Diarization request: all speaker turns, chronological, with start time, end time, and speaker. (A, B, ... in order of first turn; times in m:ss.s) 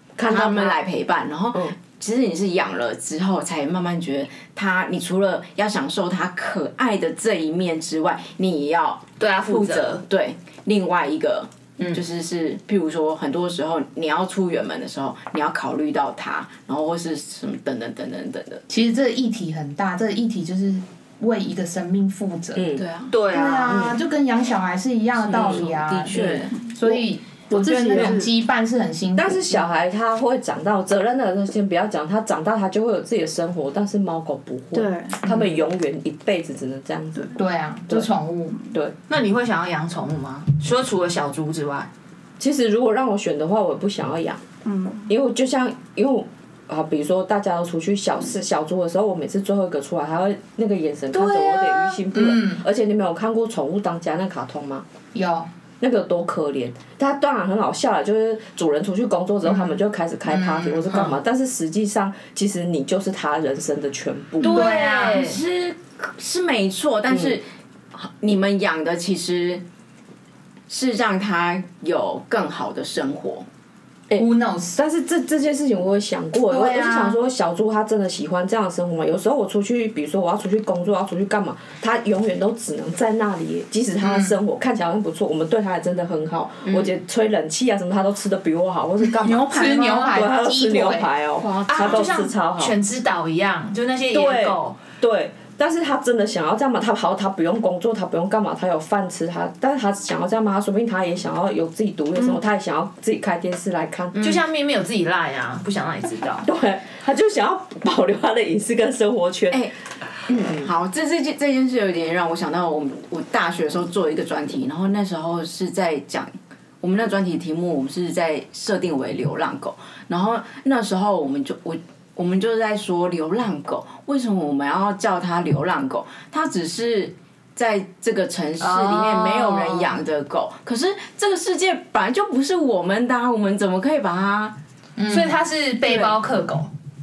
0:00.2-0:18.6 A
0:00.2-0:00.7 B
0:09.2-0:10.0 C
0:18.7-0:22.7 D
0:22.6-0:22.8 B
0:22.8-0:23.2 A
0:23.1-0:23.9 C
0:23.3-0:29.6 D
0:25.2-0:26.6 A
0:27.5-0:28.3 E
0:29.2-0:37.4 B
0:34.7-0:35.2 E
0:37.4-0:38.6 D
0:39.1-0:41.9 C
0:42.4-0:44.4 B
0:44.6-0:45.1 E
0:45.1-0:54.9 B
0:51.2-0:52.6 D
0:55.1-0:55.5 D
0:55.8-1:04.6 B
0:59.4-1:01.2 D
1:04.4-1:09.6 A
1:04.4-1:05.3 D
1:04.4-1:05.4 C
1:10.7-1:13.5 A
1:14.1-1:29.6 B
1:14.2-1:14.8 D
1:16.5-1:17.1 D
1:24.0-1:24.4 D
1:29.2-1:30.2 E
1:29.4-1:31.1 D
1:30.1-1:32.8 B
1:31.6-1:32.0 A
1:31.7-1:34.8 C
1:34.1-1:44.4 B
1:44.2-1:46.5 C
1:46.4-1:49.6 B
1:50.3-2:14.6 A
2:08.6-2:10.0 C
2:15.0-2:15.4 D
2:15.1-2:16.7 C